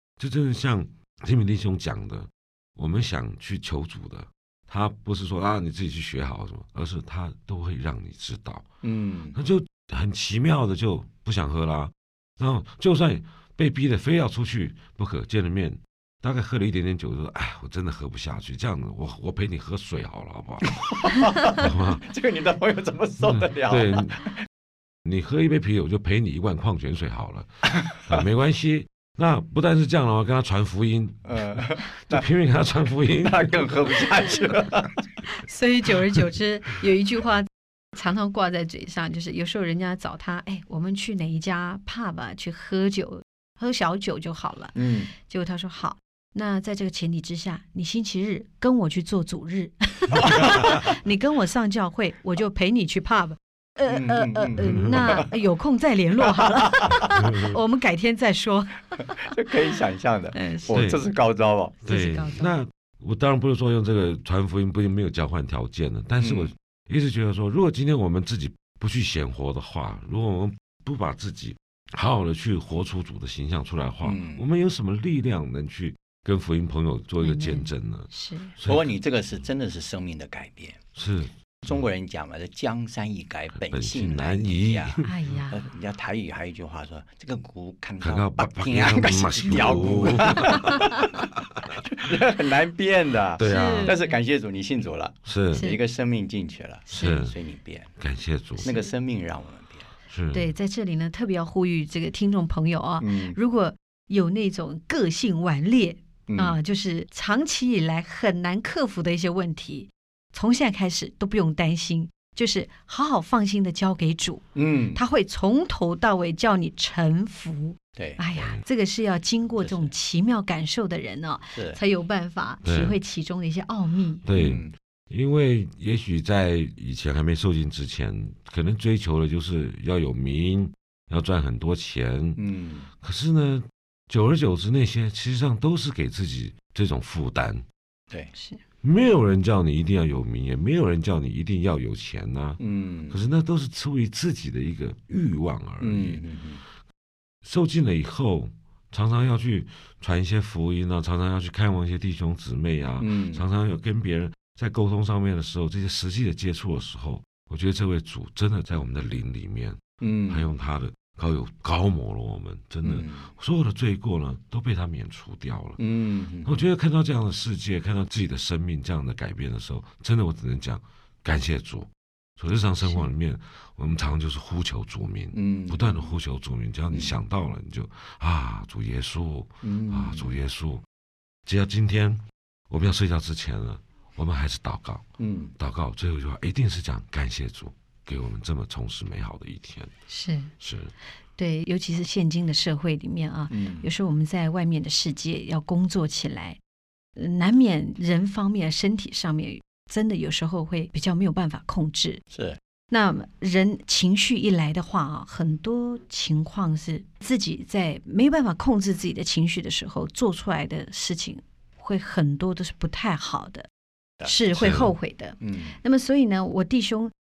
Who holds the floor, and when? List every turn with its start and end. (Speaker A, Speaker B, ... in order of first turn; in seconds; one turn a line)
Speaker A: 0.2-8.7
Speaker B: 8.8-9.4
Speaker A: 9.3-22.0
Speaker B: 20.7-24.3
Speaker A: 23.2-24.2
Speaker A: 25.0-34.0
Speaker B: 31.2-32.2
Speaker B: 33.2-35.1
Speaker C: 35.3-59.3
Speaker B: 44.8-45.1
Speaker B: 50.1-50.6
Speaker B: 53.9-55.3
Speaker A: 54.7-55.2
Speaker B: 56.3-57.1
Speaker A: 57.2-57.5
Speaker B: 59.2-61.8
Speaker C: 60.3-60.8
Speaker A: 60.7-61.0
Speaker A: 61.8-78.9
Speaker C: 61.8-62.5
Speaker B: 66.2-66.5
Speaker B: 74.0-74.4
Speaker C: 77.2-78.5
Speaker B: 78.6-80.8
Speaker A: 81.0-81.3
Speaker B: 81.6-91.1
Speaker A: 83.6-85.1
Speaker C: 85.0-85.6
Speaker A: 88.0-91.1
Speaker B: 91.8-97.9
Speaker A: 93.4-94.0
Speaker C: 93.4-94.2
Speaker A: 95.2-95.6
Speaker C: 95.5-95.8
Speaker C: 96.9-97.2
Speaker A: 96.9-97.3
Speaker A: 98.0-98.7
Speaker C: 98.6-98.9
Speaker B: 98.6-99.9
Speaker A: 100.1-100.5
Speaker C: 100.3-124.2
Speaker B: 103.0-103.4
Speaker B: 106.3-106.6
Speaker B: 114.5-115.0
Speaker B: 118.0-118.2
Speaker A: 118.3-118.6
Speaker B: 119.6-119.9
Speaker B: 121.5-121.8
Speaker A: 122.6-123.0
Speaker A: 124.2-132.4
Speaker B: 124.3-124.7
Speaker B: 132.4-132.9
Speaker A: 133.0-137.6
Speaker C: 138.3-138.6
Speaker A: 138.8-146.2
Speaker B: 142.6-143.2
Speaker B: 145.8-146.6
Speaker A: 147.4-165.8
Speaker B: 153.0-153.4
Speaker B: 160.0-160.5
Speaker B: 162.8-163.3
Speaker B: 165.8-166.6
Speaker A: 166.4-180.8
Speaker C: 172.8-173.1
Speaker B: 175.3-176.1
Speaker B: 176.9-177.2
Speaker B: 179.6-180.3
Speaker A: 181.4-185.1
Speaker B: 185.2-185.6
Speaker A: 185.6-189.9
Speaker C: 190.1-190.5
Speaker A: 190.6-190.9
Speaker C: 191.4-196.6
Speaker B: 193.5-193.9
Speaker C: 197.2-202.2
Speaker B: 202.3-202.6
Speaker C: 202.9-213.7
Speaker B: 214.2-214.8
Speaker C: 214.2-217.1
Speaker A: 214.6-214.9
Speaker B: 215.4-215.8